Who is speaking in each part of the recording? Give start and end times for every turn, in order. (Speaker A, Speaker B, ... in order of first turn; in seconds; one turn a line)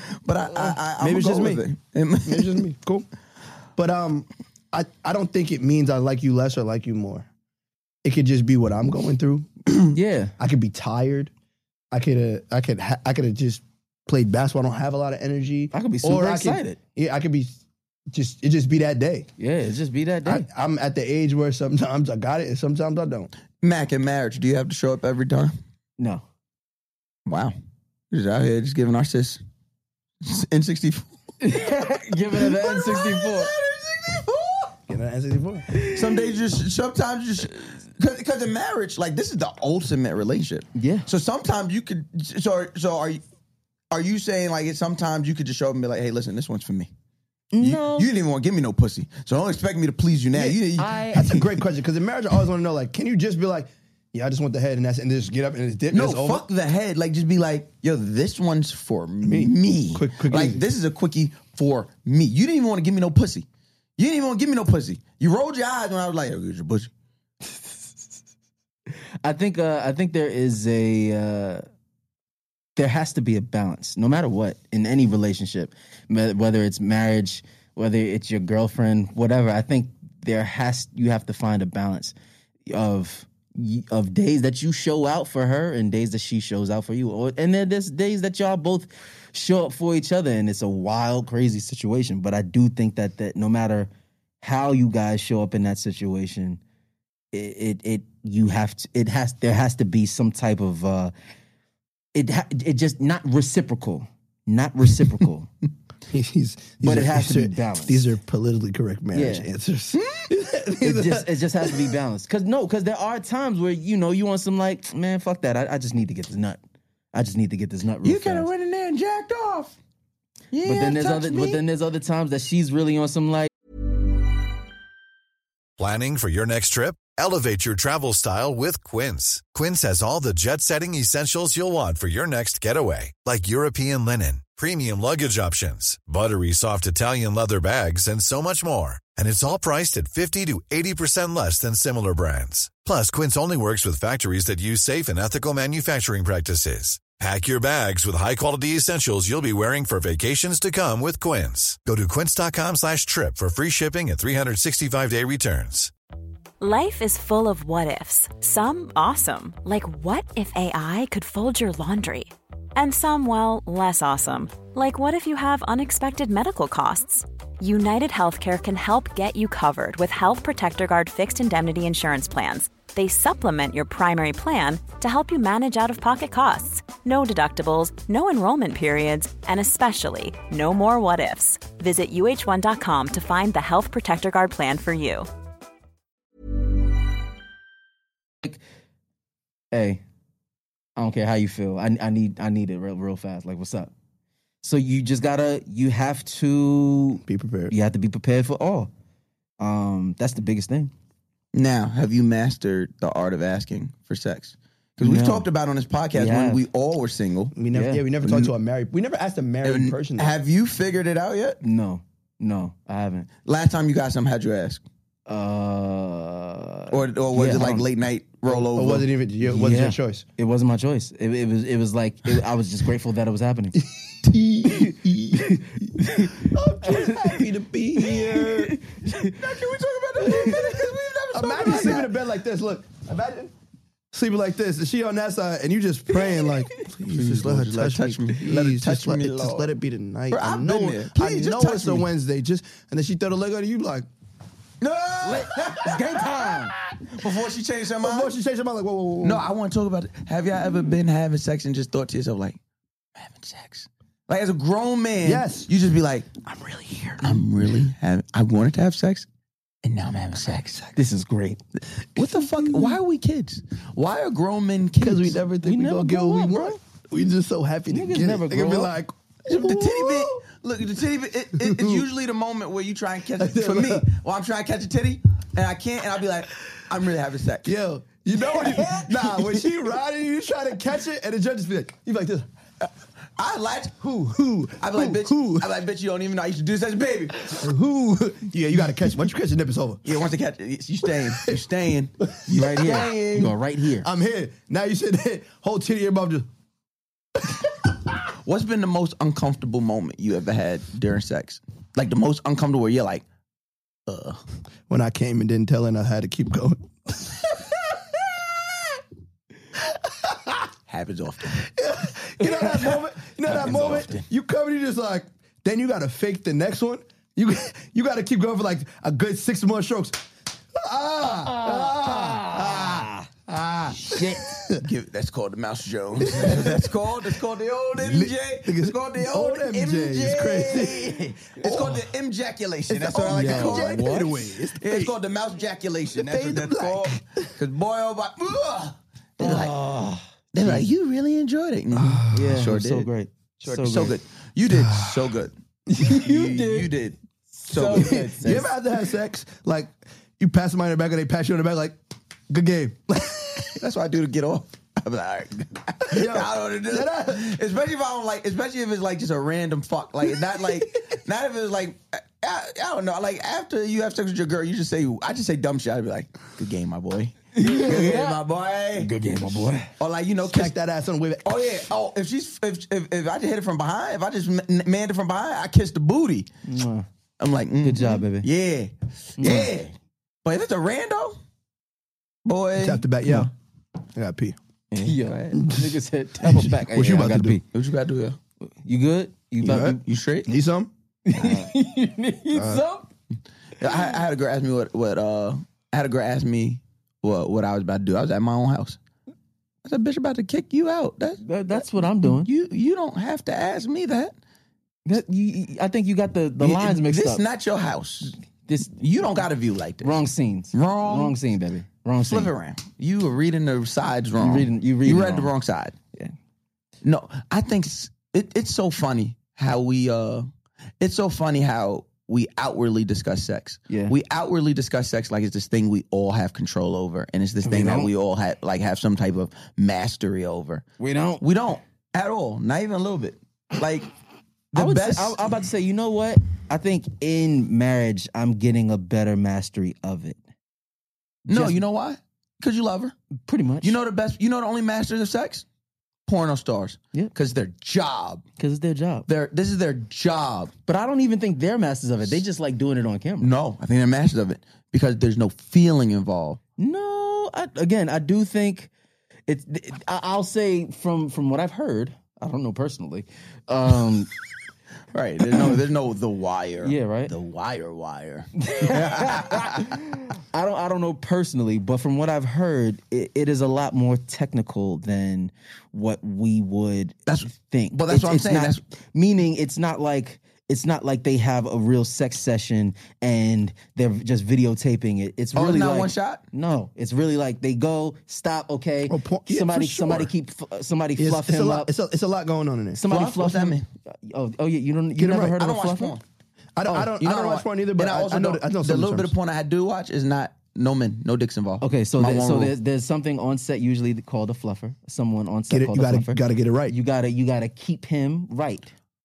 Speaker A: 0.2-2.6
Speaker B: 0.6-1.6
Speaker B: 2.2-3.1
Speaker B: 3.8-7.3
Speaker B: 8.0-11.3
Speaker C: 9.9-10.3
Speaker B: 11.9-17.6
Speaker C: 15.7-16.8
Speaker B: 18.1-19.3
Speaker C: 19.4-20.5
Speaker B: 20.2-23.3
Speaker A: 23.6-25.5
Speaker A: 27.3-27.5
Speaker A: 28.1-29.4
Speaker A: 30.2-31.1
Speaker C: 31.4-33.5
Speaker A: 32.3-34.7
Speaker B: 34.9-35.7
Speaker C: 35.7-36.3
Speaker A: 35.9-43.2
Speaker C: 40.8-41.1
Speaker A: 43.9-46.9
Speaker C: 47.5-48.1
Speaker A: 47.6-51.4
Speaker B: 50.3-50.6
Speaker C: 50.8-51.4
Speaker B: 51.1-56.5
Speaker A: 55.9-63.5
Speaker B: 59.2-60.6
Speaker A: 64.0-66.9
Speaker C: 69.2-71.7
Speaker C: 72.8-82.2
Speaker C: 82.7-93.9
Speaker C: 94.4-96.6
Speaker C: 97.3-101.1
Speaker C: 102.1-105.5
Speaker B: 106.1-111.3
Speaker C: 106.8-108.1
Speaker C: 109.1-109.5
Speaker A: 109.9-110.3
Speaker C: 110.8-116.6
Speaker C: 117.1-118.5
Speaker A: 118.0-119.8
Speaker A: 120.5-121.6
Speaker C: 120.7-123.5
Speaker D: 125.8-155.9
Speaker E: 156.6-185.3
Speaker C: 189.7-190.0
Speaker C: 191.0-193.9
Speaker C: 194.6-198.9
Speaker B: 197.2-197.7
Speaker C: 199.6-200.9
Speaker A: 201.5-207.6
Speaker C: 205.0-205.5
Speaker C: 206.1-206.6
Speaker B: 207.6-210.3
Speaker C: 207.7-208.1
Speaker A: 208.2-208.5
Speaker A: 209.6-211.6
Speaker C: 211.6-213.3
Speaker A: 213.5-214.8
Speaker C: 215.3-217.9
Speaker A: 216.9-219.1
Speaker B: 218.5-220.3
Speaker C: 219.4-223.8
Speaker B: 223.8-228.8
Speaker C: 225.3-227.4
Speaker C: 228.0-229.4
Speaker A: 229.2-232.2
Speaker C: 230.2-230.9
Speaker B: 230.3-230.7
Speaker B: 231.3-233.5
Speaker C: 231.6-232.0
Speaker B: 234.1-244.1
Speaker A: 237.1-239.7
Speaker A: 240.3-242.1
Speaker A: 244.8-246.5
Speaker C: 245.2-246.8
Speaker A: 247.1-248.3
Speaker B: 248.0-249.5
Speaker A: 249.2-252.6
Speaker A: 253.2-256.3
Speaker B: 255.2-255.7
Speaker B: 256.4-257.4
Speaker A: 257.2-259.3
Speaker A: 259.8-261.0
Speaker C: 261.0-261.6
Speaker A: 262.2-265.4
Speaker B: 262.2-263.0
Speaker B: 265.0-270.4
Speaker C: 265.6-266.8
Speaker C: 267.9-268.9
Speaker A: 269.5-277.7
Speaker B: 271.6-272.1
Speaker B: 273.4-274.1
Speaker B: 277.6-282.5
Speaker A: 278.5-279.4
Speaker A: 283.4-284.0
Speaker B: 284.0-285.7
Speaker A: 284.8-287.6
Speaker B: 287.4-290.1
Speaker A: 290.1-293.6
Speaker B: 291.1-291.6
Speaker C: 292.5-294.1
Speaker B: 294.0-296.5
Speaker A: 298.4-303.2
Speaker A: 304.1-304.4
Speaker B: 304.9-308.6
Speaker B: 309.8-310.7
Speaker A: 310.9-311.7
Speaker B: 311.5-324.9
Speaker A: 312.6-314.2
Speaker C: 321.3-323.3
Speaker C: 324.0-324.5
Speaker A: 324.8-339.8
Speaker B: 326.2-327.0
Speaker B: 328.0-332.1
Speaker B: 332.9-335.1
Speaker C: 333.3-334.4
Speaker B: 336.1-337.5
Speaker C: 339.4-340.9
Speaker A: 340.5-343.1
Speaker B: 341.9-342.5
Speaker C: 342.3-344.2
Speaker A: 343.6-345.5
Speaker B: 344.7-345.2
Speaker C: 346.0-346.9
Speaker A: 346.1-348.2
Speaker C: 347.6-348.7
Speaker B: 347.9-353.8
Speaker A: 353.8-369.1
Speaker B: 356.1-357.6
Speaker C: 367.6-368.4
Speaker C: 369.0-369.9
Speaker A: 370.0-370.7
Speaker B: 370.4-371.6
Speaker A: 371.4-376.5
Speaker C: 376.7-377.1
Speaker A: 377.4-379.9
Speaker C: 377.8-378.5
Speaker C: 379.4-379.7
Speaker A: 380.4-381.4
Speaker A: 382.4-383.1
Speaker B: 382.8-383.5
Speaker B: 384.1-384.6
Speaker C: 385.0-387.6
Speaker B: 385.6-385.9
Speaker B: 386.4-387.6
Speaker A: 387.7-388.4
Speaker C: 388.8-390.0
Speaker B: 389.6-390.9
Speaker A: 389.7-390.5
Speaker C: 391.3-393.1
Speaker A: 391.4-391.7
Speaker B: 392.5-392.8
Speaker A: 393.8-399.0
Speaker A: 399.9-404.3
Speaker C: 401.4-402.5
Speaker C: 405.1-407.4
Speaker A: 406.6-408.4
Speaker C: 408.7-408.9
Speaker A: 408.9-410.2
Speaker C: 410.0-412.5
Speaker A: 410.7-411.4
Speaker A: 412.2-415.9
Speaker C: 414.4-415.5
Speaker A: 417.0-420.5
Speaker A: 421.0-430.9
Speaker C: 423.9-424.1
Speaker C: 427.6-428.1
Speaker C: 431.0-431.4
Speaker A: 431.4-434.1
Speaker A: 434.7-435.4
Speaker C: 434.8-440.4
Speaker C: 441.5-441.8
Speaker A: 441.5-443.1
Speaker C: 443.5-444.0
Speaker A: 443.8-445.6
Speaker A: 446.3-448.4
Speaker C: 448.6-449.3
Speaker A: 449.3-450.7
Speaker C: 450.9-453.5
Speaker A: 453.4-456.6
Speaker C: 456.8-458.9
Speaker C: 459.5-464.3
Speaker A: 465.1-469.9
Speaker C: 466.8-467.3
Speaker C: 468.6-491.9
Speaker A: 477.3-478.8
Speaker A: 485.6-486.4
Speaker B: 489.1-490.3
Speaker B: 491.2-493.0
Speaker C: 492.9-496.2
Speaker A: 493.1-493.9
Speaker B: 495.2-495.6
Speaker A: 495.3-496.2
Speaker B: 496.8-499.3
Speaker A: 496.9-502.7
Speaker C: 501.8-508.9
Speaker B: 505.7-506.9